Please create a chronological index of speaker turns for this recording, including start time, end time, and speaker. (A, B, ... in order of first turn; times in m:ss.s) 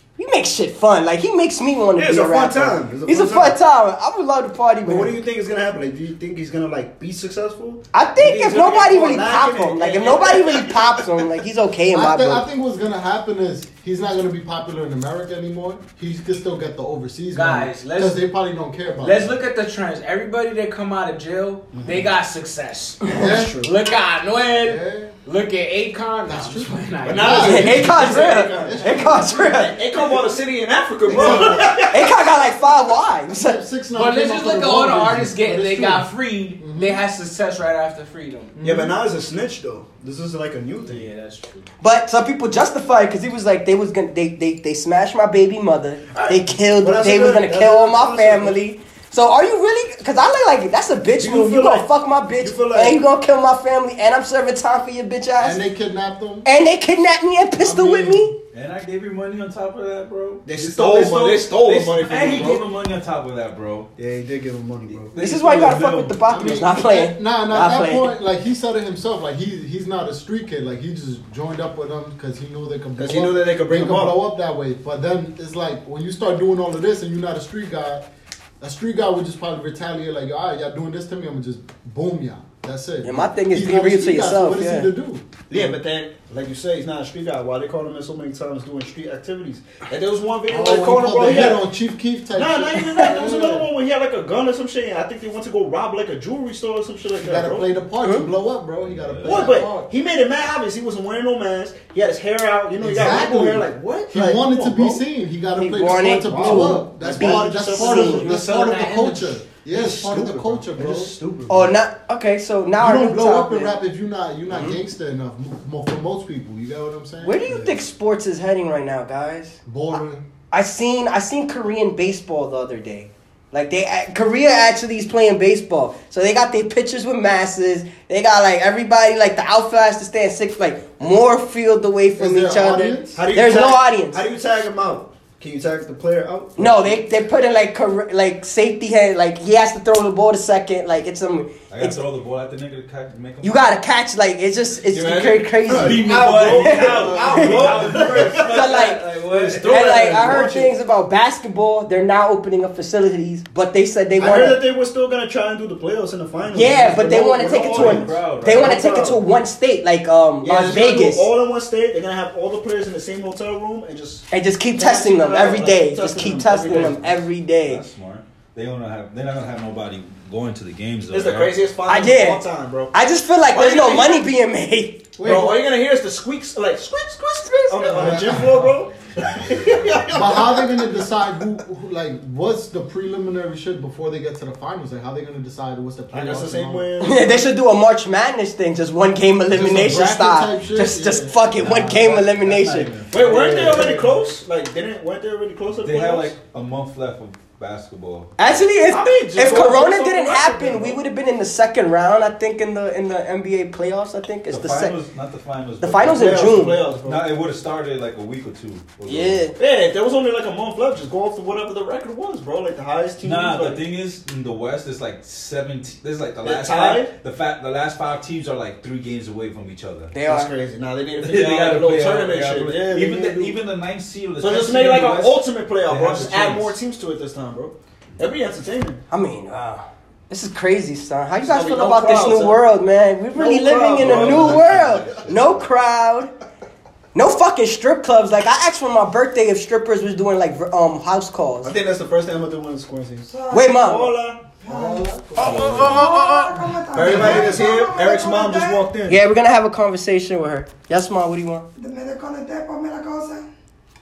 0:00.2-0:05.2 A
0:02.0-0:03.6 B
0:04.8-0:11.0 B
0:07.9-0:12.5 A
0:11.9-0:19.3 C
0:17.3-0:18.2 D
0:19.0-0:28.2 D
0:21.7-0:22.1 B
0:23.1-0:23.6 C
0:23.1-0:23.7 B
0:24.6-0:25.2 C
0:26.2-0:29.6 C
0:27.0-0:32.2 B
0:27.2-0:29.7 A
0:31.1-0:31.8 C
0:31.8-0:33.6 A
0:33.3-0:37.0 C
0:33.9-0:38.6 D
0:38.6-0:39.0 C
0:38.6-0:41.1 B
0:40.7-0:41.7 D
0:41.8-0:55.6 A
0:46.1-0:48.6 B
0:51.2-0:53.0 B
0:55.4-0:56.5 C
0:56.4-0:58.3 A
0:57.6-0:58.3 C
0:58.5-1:03.9 E
1:00.5-1:02.6 B
1:04.0-1:05.9 B
1:05.0-1:06.2 E
1:05.2-1:08.2 A
1:06.3-1:18.1 C
1:13.0-1:14.2 B
1:18.6-1:25.8 C
1:23.0-1:24.9 A
1:25.5-1:31.6 B
1:30.5-1:33.7 C
1:32.4-1:37.7 B
1:37.2-1:39.9 C
1:38.0-1:38.3 A
1:38.8-1:39.6 E
1:39.2-1:45.0 B
1:42.8-1:51.2 C
1:45.6-1:48.3 A
1:46.3-1:48.4 B
1:48.0-1:49.4 D
1:49.7-1:51.7 B
1:51.5-1:53.8 A
1:52.7-1:57.8 C
1:54.5-1:54.8 A
1:57.2-2:14.2 A
1:59.7-2:00.2 C
2:12.2-2:13.2 C
2:13.1-2:17.0 B
2:16.6-2:22.0 A
2:21.7-2:23.6 E
2:23.4-2:27.8 A
2:24.9-2:30.7 B
2:25.7-2:30.5 E
2:26.9-2:28.3 C
2:28.4-2:34.6 A
2:34.2-2:38.2 B
2:36.5-2:41.3 A
2:37.5-2:39.2 E
2:40.4-2:47.1 B
2:44.3-2:47.8 A
2:47.6-2:51.6 E
2:51.1-2:52.9 B
2:51.9-2:55.1 A
2:53.5-2:54.3 B
2:55.2-2:55.6 C
2:55.2-3:00.8 B
2:57.9-2:58.6 C
2:57.9-2:58.4 E
3:00.1-3:06.9 C
3:06.1-3:07.5 B
3:07.0-3:13.0 A
3:09.5-3:12.2 C
3:11.6-3:14.0 E
3:13.1-3:14.2 C
3:13.1-3:16.3 B
3:15.8-3:18.6 E
3:18.4-3:25.0 A
3:18.9-3:21.0 B
3:24.5-3:29.5 E
3:25.8-3:26.8 A
3:26.0-3:27.3 B
3:29.1-3:29.6 A
3:29.6-3:33.8 B
3:33.2-3:40.1 E
3:36.4-3:37.1 B
3:40.1-3:40.5 A
3:40.2-3:43.6 B
3:41.2-3:46.8 E
3:44.4-3:49.0 B
3:49.1-3:56.3 A
3:51.4-3:52.6 B
3:53.4-3:55.5 B
3:54.2-3:54.7 C
3:57.1-4:01.7 A
4:01.6-4:04.6 B
4:03.3-4:03.7 F
4:03.5-4:04.2 A
4:04.6-4:08.9 F
4:04.7-4:05.9 C
4:05.4-4:06.0 E
4:05.4-4:06.4 A
4:06.9-4:09.2 B
4:07.0-4:07.5 C
4:09.1-4:11.7 A
4:11.8-4:13.5 F